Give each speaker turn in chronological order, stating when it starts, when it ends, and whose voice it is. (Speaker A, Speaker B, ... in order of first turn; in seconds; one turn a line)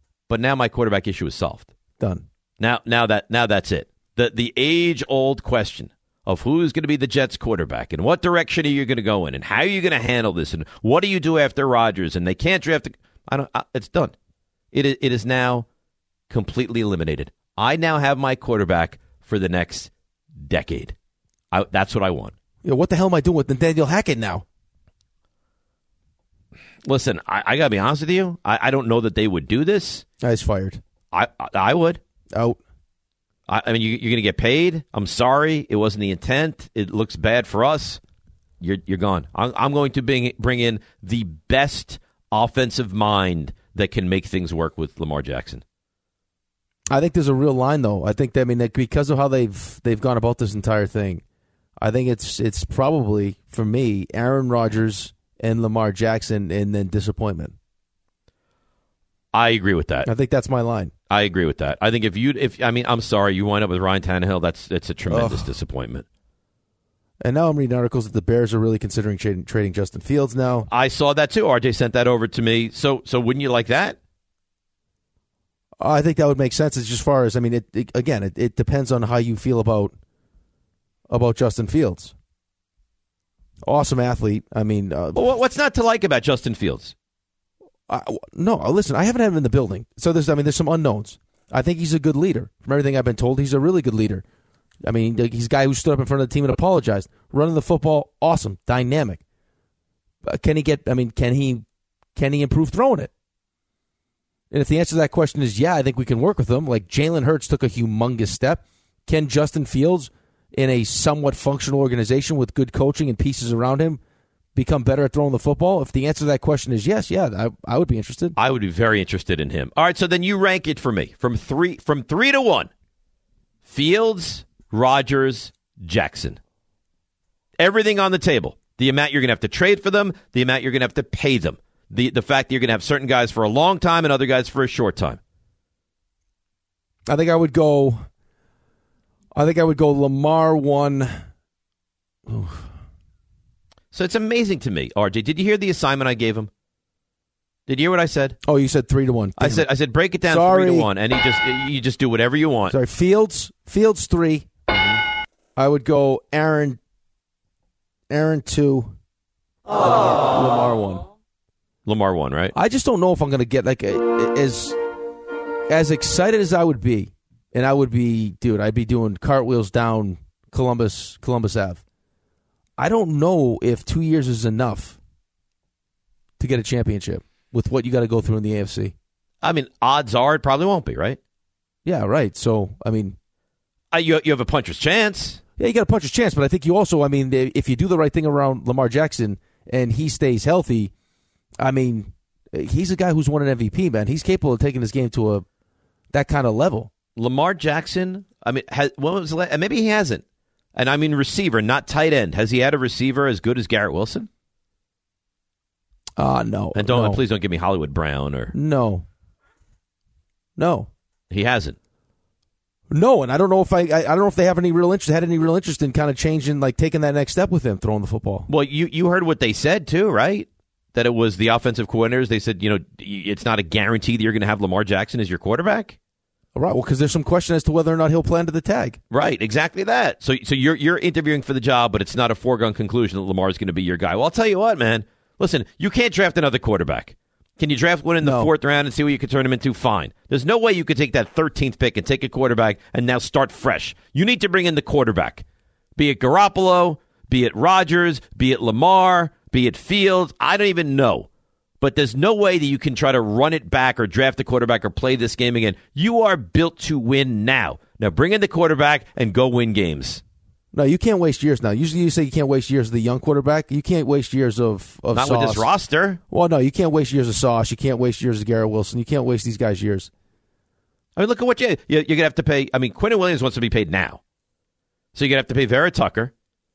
Speaker A: 0.3-1.7
Speaker B: 2.0-2.3
Speaker A: 2.6-14.1
Speaker A: 14.7-15.7
Speaker A: 16.3-20.9
Speaker A: 21.5-22.3
Speaker B: 22.6-24.4
Speaker A: 26.8-30.1
Speaker B: 30.2-30.8
Speaker A: 31.1-32.0
Speaker B: 32.3-32.6
Speaker A: 33.5-38.0
Speaker A: 38.6-45.6
Speaker B: 46.9-51.2
Speaker B: 51.8-57.5
Speaker A: 59.3-60.1
Speaker B: 60.0-60.9
Speaker A: 61.1-66.0
Speaker B: 65.1-65.5
Speaker B: 67.2-70.7
Speaker A: 70.7-74.0
Speaker B: 75.8-79.9
Speaker B: 81.1-82.1
Speaker B: 83.7-85.2
Speaker A: 85.2-86.9
Speaker B: 87.9-94.2
Speaker B: 94.8-99.2
Speaker B: 100.2-101.6
Speaker B: 102.2-103.1
Speaker B: 104.5-114.0
Speaker B: 114.5-118.4
Speaker A: 118.4-122.7
Speaker A: 123.7-126.4
Speaker A: 127.6-135.2
Speaker B: 137.1-138.1
Speaker B: 139.3-141.1
Speaker B: 142.3-142.7
Speaker A: 143.9-146.5
Speaker A: 147.7-148.4
Speaker B: 148.4-149.7
Speaker A: 149.4-152.8
Speaker B: 150.3-150.9
Speaker B: 152.7-154.5
Speaker A: 154.7-155.0
Speaker B: 155.6-156.8
Speaker B: 158.1-158.9
Speaker B: 159.8-161.1
Speaker A: 161.9-162.5
Speaker B: 162.5-164.8
Speaker B: 165.7-171.8
Speaker B: 172.8-175.0
Speaker B: 176.4-178.9
Speaker A: 179.4-181.2
Speaker B: 181.8-183.2
Speaker A: 183.9-185.4
Speaker B: 185.6-190.9
Speaker B: 191.6-195.4
Speaker B: 196.1-196.9
Speaker A: 197.2-200.2
Speaker A: 200.8-204.3
Speaker B: 206.2-207.2
Speaker A: 206.8-208.5
Speaker B: 208.5-209.1
Speaker B: 210.6-210.9
Speaker A: 211.3-211.8
Speaker B: 212.9-218.5
Speaker A: 218.5-226.0
Speaker B: 226.6-229.0
Speaker A: 229.1-245.4
Speaker B: 238.2-238.5
Speaker A: 246.0-251.3
Speaker A: 251.8-260.2
Speaker B: 260.7-265.7
Speaker A: 265.1-266.2
Speaker B: 266.3-270.1
Speaker A: 271.2-274.2
Speaker A: 275.1-276.3